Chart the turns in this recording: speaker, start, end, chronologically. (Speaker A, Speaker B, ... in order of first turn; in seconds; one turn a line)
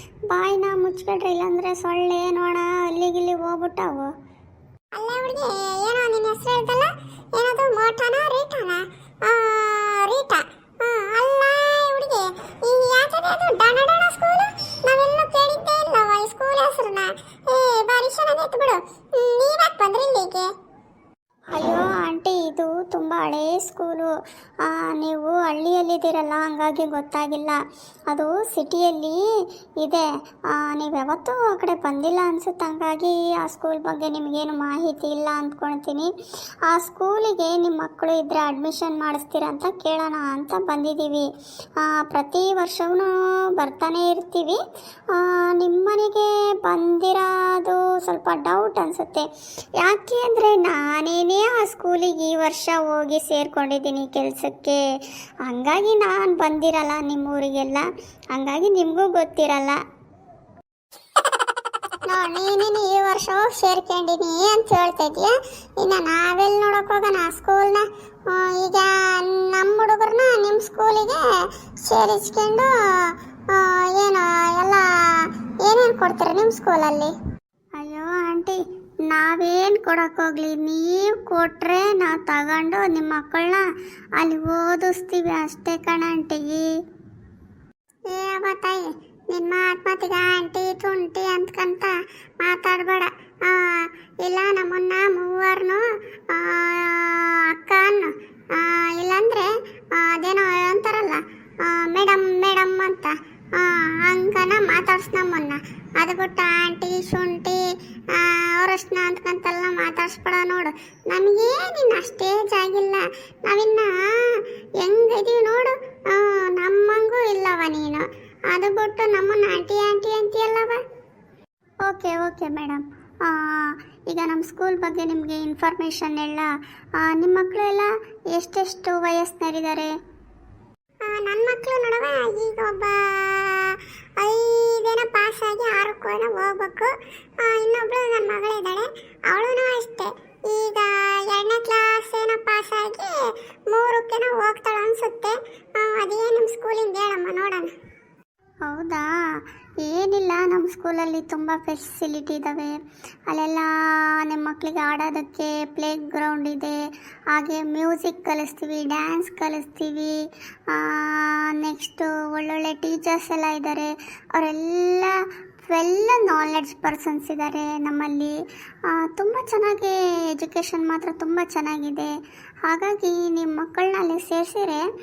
Speaker A: 0.3-4.1
Speaker B: 4.9-20.5
Speaker A: 21.5-24.1
Speaker A: 24.6-29.2
Speaker A: 29.8-36.1
Speaker A: 36.7-41.3
Speaker A: 41.8-44.6
Speaker A: 45.1-49.3
Speaker A: 49.8-54.8
Speaker A: 55.5-59.8
Speaker B: 62.0-71.2
Speaker B: 71.8-72.7
Speaker B: 73.5-74.8
Speaker B: 75.6-77.1
Speaker A: 77.8-83.7
Speaker A: 84.2-86.7
Speaker B: 88.1-120.8
Speaker A: 121.8-126.5
Speaker A: 127.0-129.9
Speaker B: 131.0-143.2
Speaker B: 143.7-147.7
Speaker A: 148.7-149.1
Speaker A: 149.8-152.8
Speaker A: 153.3-156.8
Speaker A: 157.3-160.2
Speaker A: 160.7-165.2
Speaker A: 165.7-168.4
Speaker A: 168.9-172.1
Speaker A: 172.7-174.8